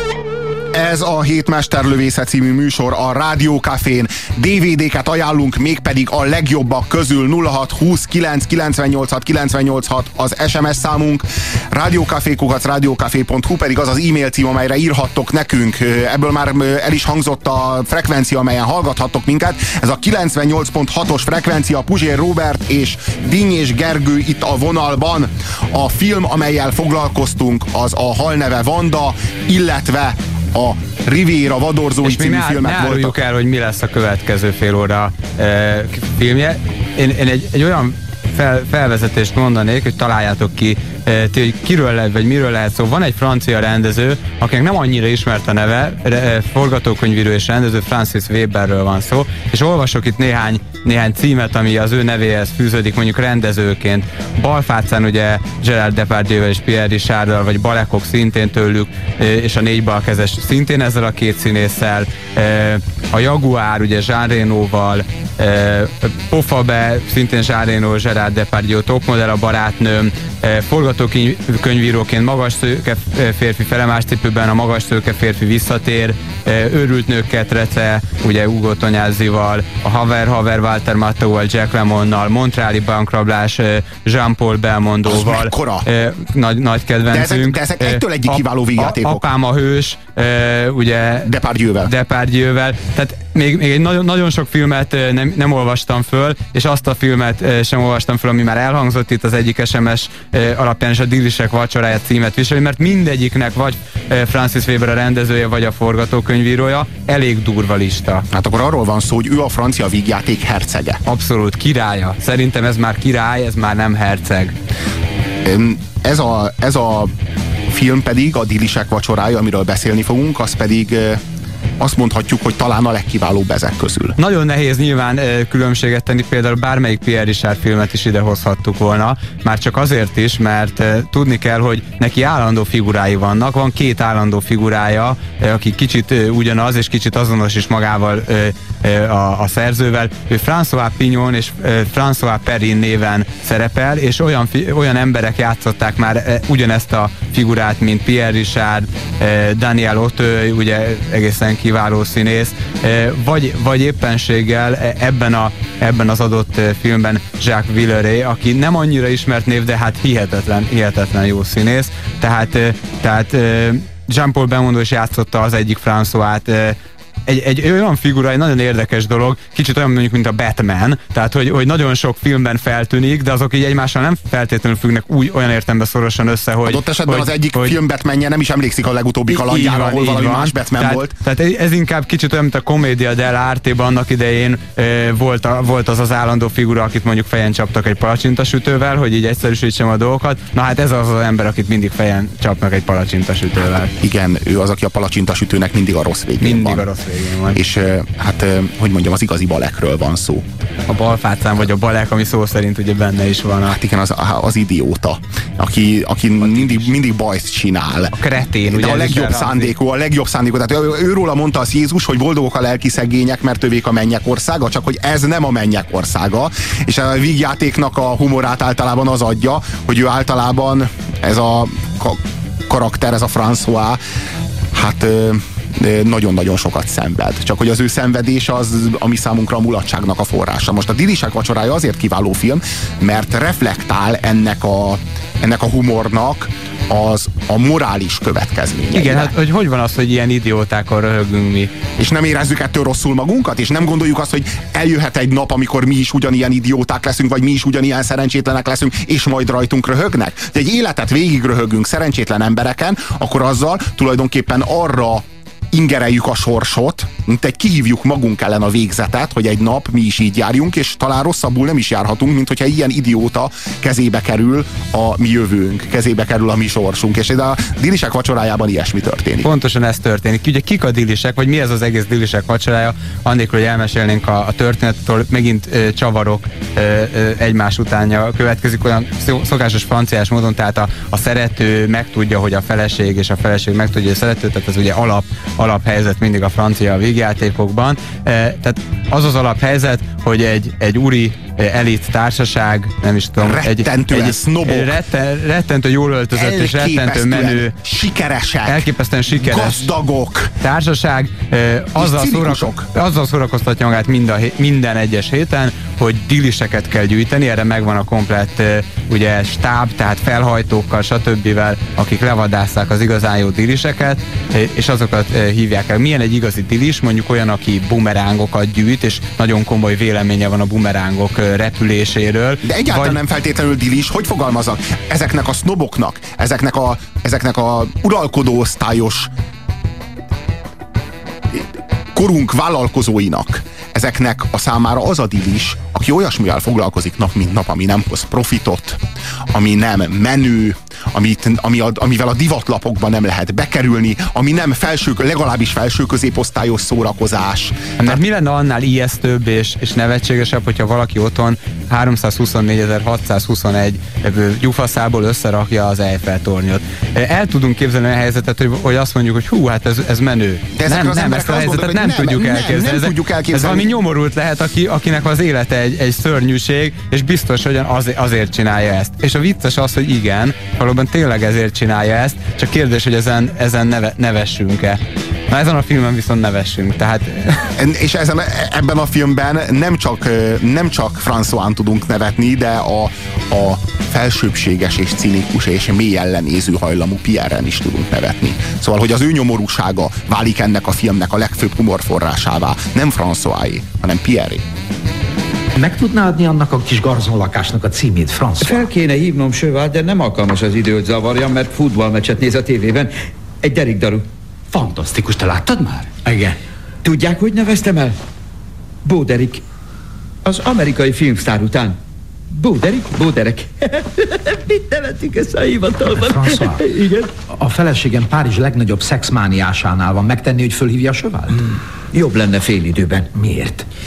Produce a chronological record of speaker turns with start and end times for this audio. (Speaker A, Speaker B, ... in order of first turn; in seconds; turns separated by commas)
Speaker A: 0.7-33.1, Speaker B: 32.0-91.3, Speaker A: 85.1-85.9, Speaker A: 87.1-89.2, Speaker A: 91.2-91.9, Speaker B: 91.8-108.3, Speaker A: 108.3-111.0, Speaker B: 111.1-114.5, Speaker A: 115.5-117.1, Speaker A: 117.7-121.2, Speaker A: 121.8-124.2, Speaker B: 124.2-177.8, Speaker A: 176.7-181.2, Speaker B: 179.3-193.9, Speaker A: 194.0-196.9, Speaker B: 196.4-197.6, Speaker A: 197.5-200.4, Speaker B: 200.9-203.8, Speaker A: 203.7-224.0, Speaker B: 206.4-206.9, Speaker B: 208.1-209.8, Speaker A: 224.7-239.3, Speaker B: 238.9-241.7, Speaker A: 242.0-269.5, Speaker B: 269.4-297.7, Speaker A: 293.4-295.0, Speaker A: 296.3-300.5, Speaker B: 298.7-299.9, Speaker B: 300.6-323.2, Speaker A: 302.0-302.9, Speaker A: 322.6-329.3, Speaker A: 331.5-339.0, Speaker A: 339.5-348.2, Speaker B: 348.0-377.7, Speaker A: 360.8-363.9, Speaker A: 377.8-394.6, Speaker C: 395.8-398.9, Speaker D: 398.6-404.3, Speaker C: 404.7-406.6, Speaker D: 407.0-408.2, Speaker D: 409.1-409.6, Speaker D: 410.4-412.0, Speaker D: 412.5-417.3, Speaker C: 416.1-416.8, Speaker C: 417.5-421.6, Speaker D: 422.1-423.3